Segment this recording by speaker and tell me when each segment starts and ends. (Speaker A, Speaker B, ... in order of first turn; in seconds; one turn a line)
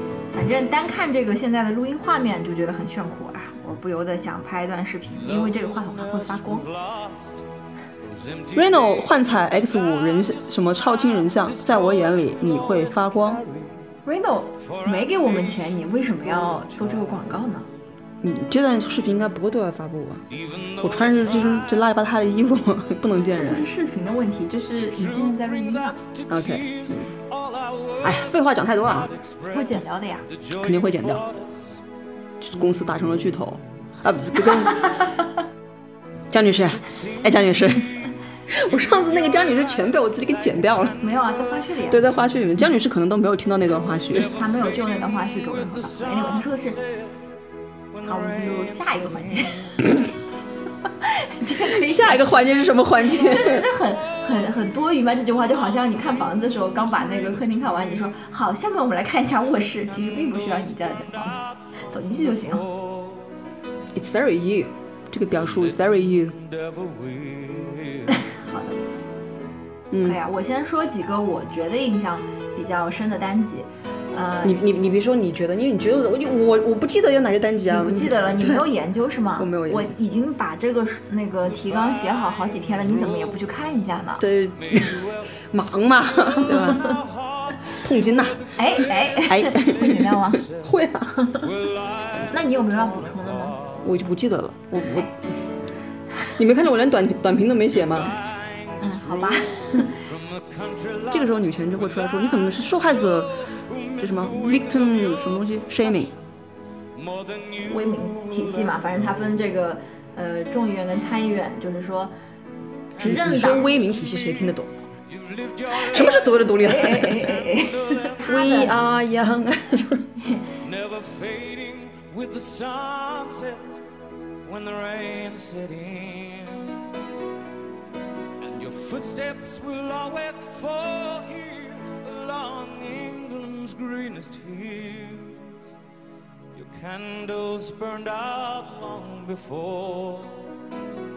Speaker A: 0.3-6.7
Speaker B: 5.1-7.4
Speaker B: 8.0-13.9
Speaker C: 8.5-13.4
Speaker A: 14.0-17.7
Speaker B: 14.6-17.7
Speaker C: 18.2-20.2
Speaker B: 20.3-21.9
Speaker C: 20.8-23.6
Speaker A: 23.3-26.0
Speaker B: 24.7-31.8
Speaker C: 26.3-27.1
Speaker C: 28.0-29.1
Speaker A: 29.5-30.3
Speaker C: 30.5-31.2
Speaker C: 32.4-35.0
Speaker C: 36.3-37.9
Speaker B: 36.7-41.8
Speaker C: 38.5-41.0
Speaker A: 41.0-42.1
Speaker C: 41.9-44.3
Speaker B: 44.0-47.1
Speaker A: 44.3-46.8
Speaker B: 47.9-49.9
Speaker A: 48.0-49.7
Speaker A: 51.0-52.3
Speaker C: 51.5-53.6
Speaker A: 53.0-62.7
Speaker B: 53.2-54.6
Speaker B: 55.5-58.1
Speaker B: 59.9-63.3
Speaker C: 63.9-66.4
Speaker B: 65.3-68.2
Speaker A: 68.2-68.8
Speaker C: 69.9-70.2
Speaker A: 70.0-74.6
Speaker C: 74.4-78.6
Speaker A: 77.7-84.2
Speaker C: 79.4-80.0
Speaker B: 81.4-83.4
Speaker C: 84.2-86.8
Speaker B: 84.5-90.7
Speaker A: 86.5-86.9
Speaker C: 87.8-88.4
Speaker A: 88.5-90.4
Speaker C: 89.2-91.2
Speaker A: 91.2-91.4
Speaker B: 91.4-93.9
Speaker A: 92.3-93.6
Speaker C: 93.8-95.3
Speaker A: 94.8-95.1
Speaker C: 96.3-98.2
Speaker B: 97.8-106.2
Speaker A: 98.8-100.0
Speaker C: 101.1-103.5
Speaker C: 104.0-106.1
Speaker B: 106.9-109.3
Speaker A: 107.6-112.1
Speaker B: 113.0-114.5
Speaker A: 113.0-113.7
Speaker C: 113.0-114.7
Speaker B: 115.1-118.5
Speaker C: 115.7-117.4
Speaker A: 115.9-118.8
Speaker C: 118.2-120.1
Speaker B: 120.6-123.7
Speaker B: 124.4-126.8
Speaker B: 128.4-135.7
Speaker B: 136.5-140.5